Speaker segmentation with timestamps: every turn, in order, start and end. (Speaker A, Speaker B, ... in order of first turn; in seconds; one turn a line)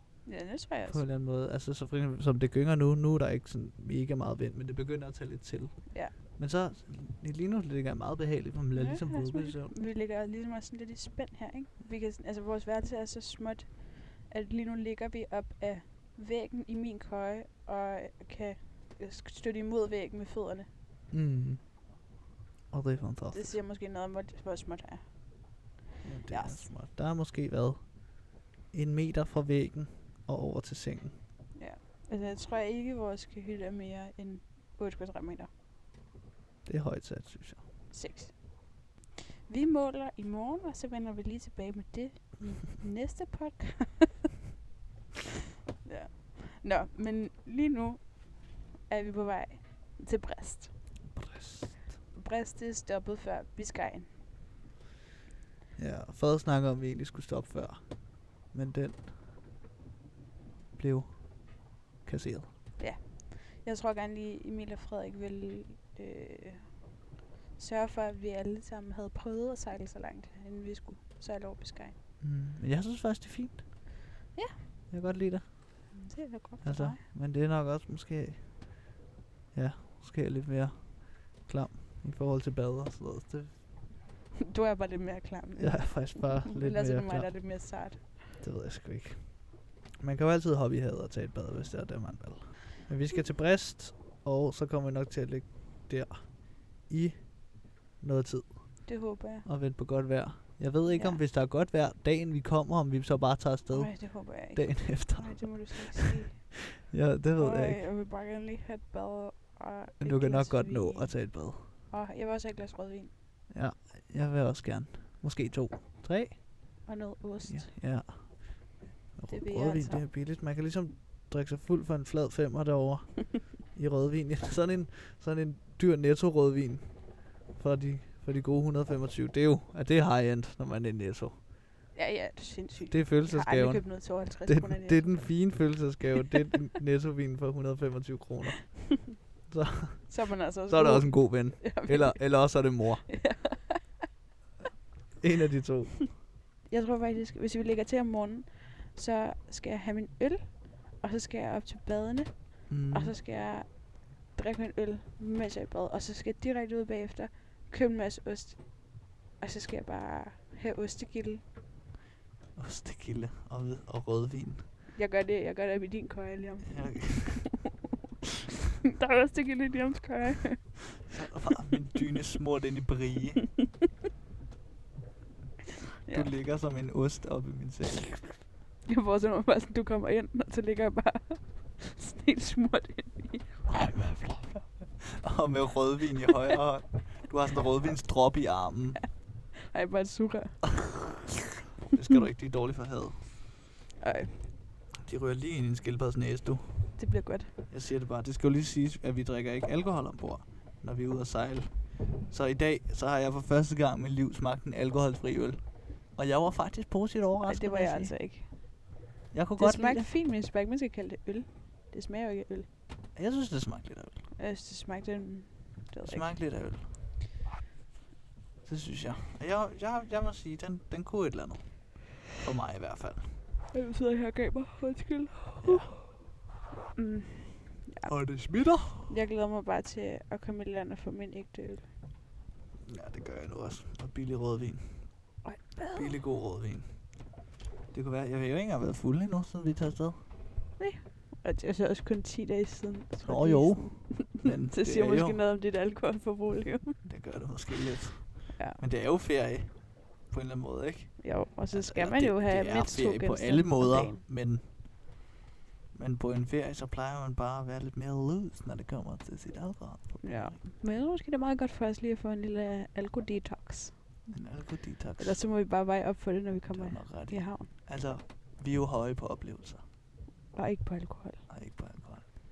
Speaker A: 0.2-1.1
Speaker B: 0.9-9.8
Speaker A: 8.7-20.7
Speaker B: 21.1-21.6
Speaker B: 22.7-23.6
Speaker A: 23.3-25.1
Speaker B: 26.0-31.1
Speaker A: 26.3-26.7
Speaker A: 31.5-35.5
Speaker B: 36.6-37.6
Speaker A: 37.9-38.8
Speaker A: 39.5-44.2
Speaker A: 45.8-50.8
Speaker B: 51.1-52.0
Speaker A: 52.1-54.1
Speaker B: 55.8-59.1
Speaker B: 60.8-62.5
Speaker A: 62.8-66.9
Speaker A: 67.5-71.9
Speaker B: 72.2-73.7
Speaker A: 74.3-74.7
Speaker B: 74.9-75.9
Speaker A: 75.9-77.0
Speaker B: 76.6-78.9
Speaker B: 79.5-83.6
Speaker A: 84.5-88.2
Speaker B: 85.6-107.9
Speaker A: 98.8-99.5
Speaker A: 100.8-101.2
Speaker A: 103.7-106.7
Speaker A: 107.4-113.1
Speaker B: 110.0-111.7
Speaker B: 113.5-116.6
Speaker A: 116.8-117.7
Speaker B: 117.4-131.4
Speaker A: 119.3-120.0
Speaker A: 131.9-135.5
Speaker B: 132.8-139.0
Speaker B: 139.5-143.2
Speaker A: 140.1-144.0
Speaker B: 145.2-146.2
Speaker A: 146.7-161.4
Speaker B: 152.7-153.2
Speaker B: 162.6-164.7
Speaker A: 164.9-167.5
Speaker B: 166.7-167.6
Speaker A: 168.8-171.0
Speaker B: 171.1-173.5
Speaker B: 176.1-178.4
Speaker A: 178.8-184.6
Speaker B: 183.7-189.1
Speaker A: 189.6-191.2
Speaker B: 191.9-193.3
Speaker A: 194.0-194.5
Speaker B: 194.9-197.1
Speaker A: 196.9-197.5
Speaker B: 197.7-208.2
Speaker A: 207.4-208.8
Speaker B: 209.3-210.1
Speaker A: 209.6-212.7
Speaker B: 213.1-214.2
Speaker A: 214.4-216.4
Speaker B: 216.0-216.9
Speaker B: 218.6-223.4
Speaker A: 223.7-226.2
Speaker B: 225.6-226.0
Speaker A: 226.9-228.4
Speaker B: 228.0-229.1
Speaker A: 228.9-231.9
Speaker B: 232.8-235.3
Speaker A: 235.4-236.2
Speaker B: 235.9-237.2
Speaker B: 237.9-240.2
Speaker A: 240.8-247.1
Speaker B: 243.2-245.4
Speaker B: 247.0-254.8
Speaker A: 251.2-254.2
Speaker B: 255.9-260.6
Speaker A: 260.2-264.3
Speaker B: 264.3-265.4
Speaker A: 265.2-267.7
Speaker B: 266.7-269.8
Speaker A: 270.5-271.4
Speaker B: 271.5-272.2